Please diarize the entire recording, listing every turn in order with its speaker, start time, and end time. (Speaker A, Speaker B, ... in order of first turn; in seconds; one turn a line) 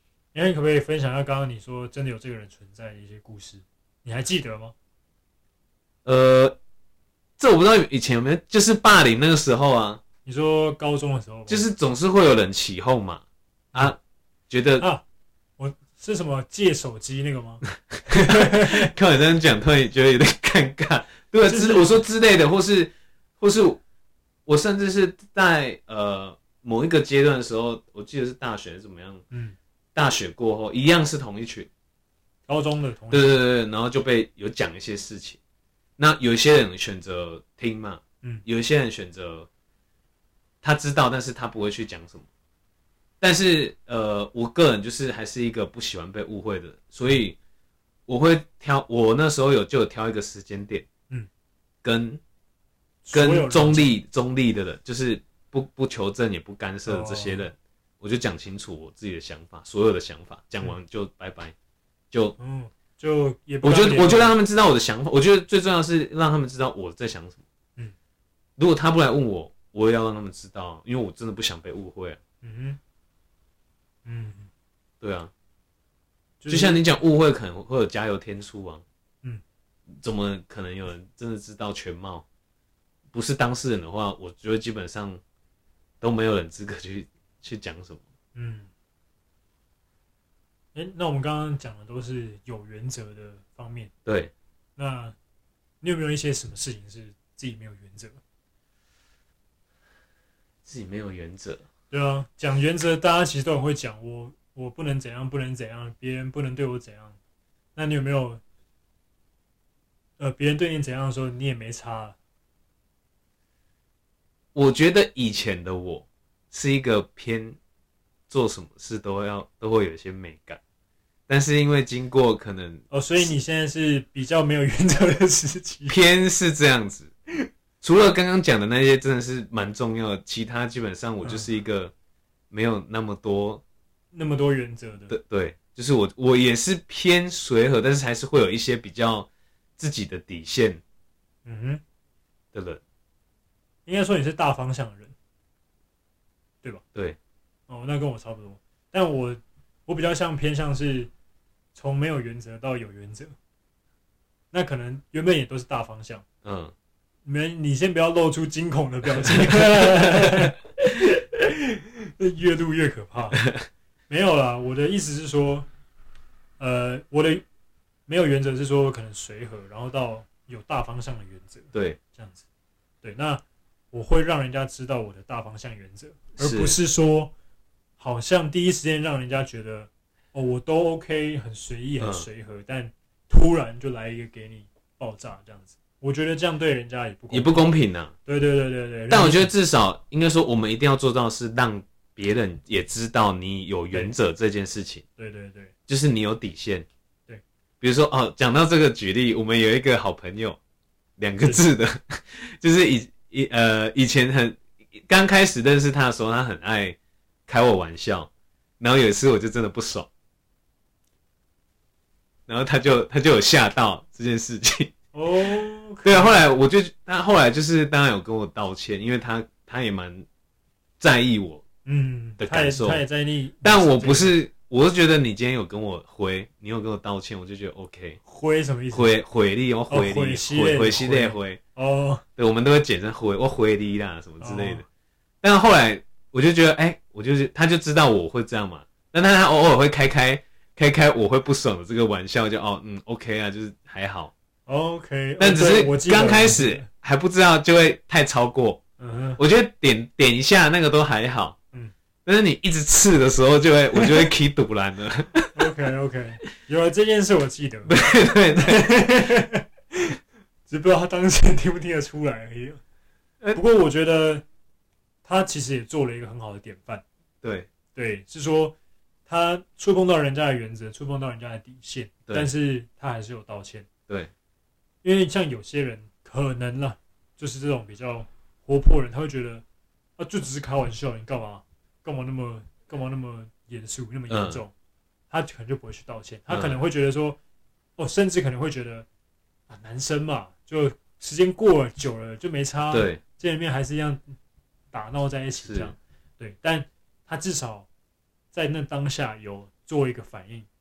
Speaker A: 0.3-4.7
Speaker B: 6.0-6.6
Speaker B: 7.4-10.0
Speaker A: 10.2-11.6
Speaker B: 11.5-13.2
Speaker B: 14.5-14.9
Speaker A: 15.6-18.9
Speaker B: 18.0-23.8
Speaker A: 21.4-22.0
Speaker B: 24.5-29.2
Speaker A: 29.3-29.6
Speaker B: 29.9-31.7
Speaker A: 32.5-33.4
Speaker B: 33.1-35.4
Speaker B: 36.0-39.5
Speaker B: 40.6-42.3
Speaker B: 43.2-47.4
Speaker B: 48.1-50.9
Speaker B: 51.8-52.2
Speaker A: 53.0-53.9
Speaker B: 53.1-61.5
Speaker A: 56.9-57.5
Speaker B: 62.1-62.4
Speaker A: 62.4-64.4
Speaker B: 63.6-67.4
Speaker B: 68.6-72.2
Speaker A: 72.4-72.8
Speaker A: 74.0-74.5
Speaker B: 75.0-75.3
Speaker A: 76.4-76.8
Speaker B: 76.5-78.8
Speaker B: 80.0-82.2
Speaker B: 83.1-85.2
Speaker B: 86.0-88.0
Speaker A: 88.3-88.7
Speaker A: 90.8-93.9
Speaker B: 94.0-94.3
Speaker A: 94.8-95.2
Speaker A: 95.8-98.2
Speaker B: 100.7-101.7
Speaker A: 101.9-107.2
Speaker A: 107.8-108.4
Speaker A: 110.2-112.2
Speaker B: 114.5-117.6
Speaker B: 118.3-120.6
Speaker B: 121.3-122.8
Speaker A: 122.9-126.0
Speaker B: 125.9-127.1
Speaker B: 127.8-131.9
Speaker B: 132.5-133.6
Speaker A: 134.1-135.1
Speaker B: 135.1-140.8
Speaker A: 141.4-141.8
Speaker B: 142.5-142.8
Speaker A: 143.9-145.2
Speaker A: 147.7-151.1
Speaker A: 151.8-153.4
Speaker A: 154.5-156.2
Speaker B: 156.4-156.7
Speaker A: 157.3-163.4
Speaker B: 159.8-160.3
Speaker B: 163.4-163.6
Speaker A: 164.1-165.7
Speaker A: 166.6-167.4
Speaker A: 168.1-172.4
Speaker B: 171.7-172.0
Speaker A: 173.0-177.3
Speaker B: 176.4-176.8
Speaker A: 178.0-187.7
Speaker B: 182.0-182.3
Speaker B: 187.3-188.1
Speaker A: 188.2-189.5
Speaker B: 189.1-195.0
Speaker A: 195.2-195.7
Speaker B: 195.9-196.9
Speaker B: 197.8-200.6
Speaker B: 201.2-210.1
Speaker B: 212.5-214.9
Speaker A: 215.1-216.4
Speaker B: 216.0-220.3
Speaker B: 221.0-221.7
Speaker A: 221.8-224.4
Speaker B: 222.4-223.0
Speaker B: 223.6-228.2
Speaker A: 228.3-229.1
Speaker B: 228.9-231.6
Speaker A: 229.9-232.2
Speaker B: 232.4-234.9
Speaker A: 234.4-234.8
Speaker B: 235.4-244.3
Speaker A: 244.7-246.9
Speaker B: 245.4-248.8
Speaker A: 249.0-249.4
Speaker B: 249.4-251.6
Speaker B: 252.2-255.6
Speaker A: 253.9-254.3
Speaker A: 255.6-260.2
Speaker B: 257.9-258.9
Speaker A: 260.7-262.8
Speaker A: 263.6-264.4
Speaker A: 265.2-267.0
Speaker B: 267.4-267.7
Speaker A: 267.9-268.8
Speaker A: 269.3-273.9
Speaker B: 272.3-272.5
Speaker A: 275.0-279.6
Speaker A: 280.2-284.7
Speaker B: 284.3-284.6
Speaker A: 285.3-287.4
Speaker B: 286.5-286.8
Speaker A: 288.0-289.1
Speaker A: 289.7-294.3
Speaker B: 292.9-293.2
Speaker A: 294.9-297.9
Speaker B: 295.6-295.9
Speaker A: 298.5-300.7